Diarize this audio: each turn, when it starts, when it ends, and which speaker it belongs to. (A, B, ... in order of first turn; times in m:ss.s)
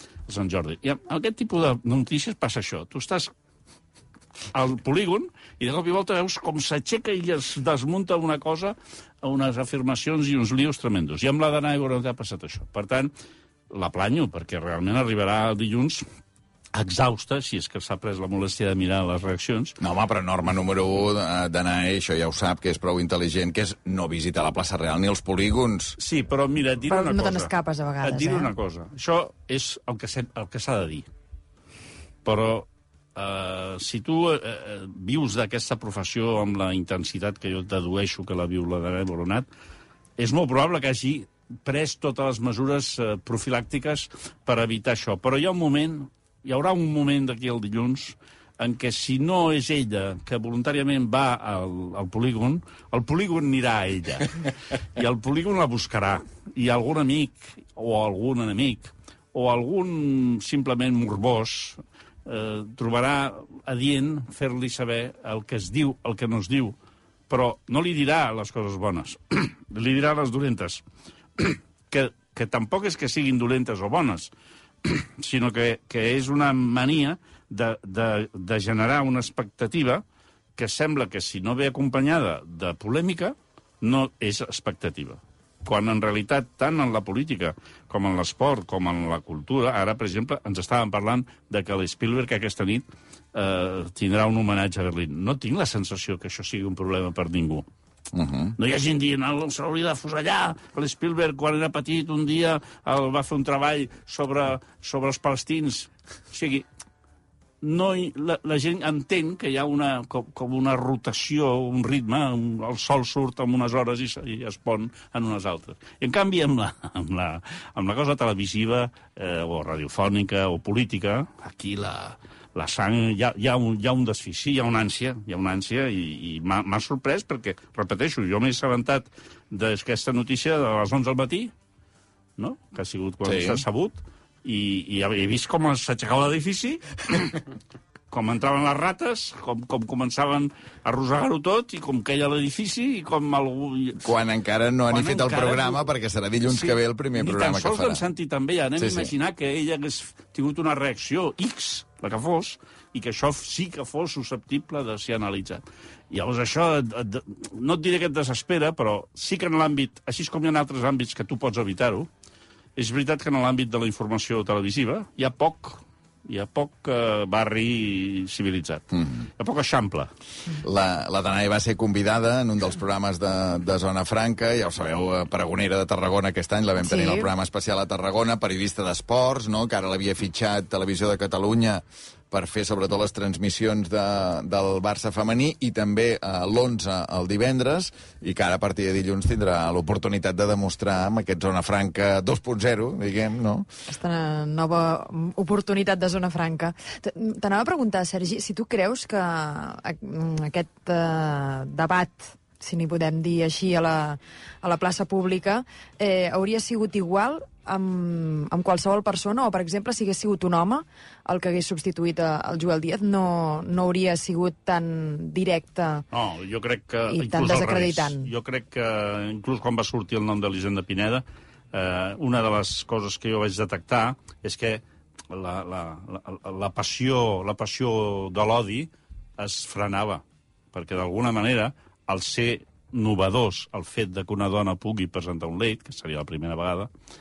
0:00.3-0:03.3 A
0:04.5-0:13.1 A
0:13.7-0:16.0 A
0:16.7-0:19.8 A
0:19.8-0:26.0 B
0:26.0-0:31.1 A
0:26.9-0:28.5 C
0:32.2-0:39.5 A
0:40.2-0:54.4 A
0:54.9-1:06.8 A
1:07.3-1:10.8 A
1:11.4-1:14.3 A
1:14.8-1:20.0 A
1:20.6-1:37.6 A
1:38.1-1:38.6 B
1:38.6-1:46.6 A
1:47.6-2:11.5 A
2:12.4-2:17.4 A
2:13.2-2:13.6 B
2:18.1-2:24.1 A
2:24.0-2:28.0 B
2:24.9-2:25.8 A
2:26.5-2:42.1 A
2:28.8-2:29.1 B
2:42.8-2:50.1 A
2:50.6-3:13.7 B
2:56.8-2:57.3 C
3:13.9-3:36.0 C
3:36.1-3:56.9 A
3:37.1-3:38.3 C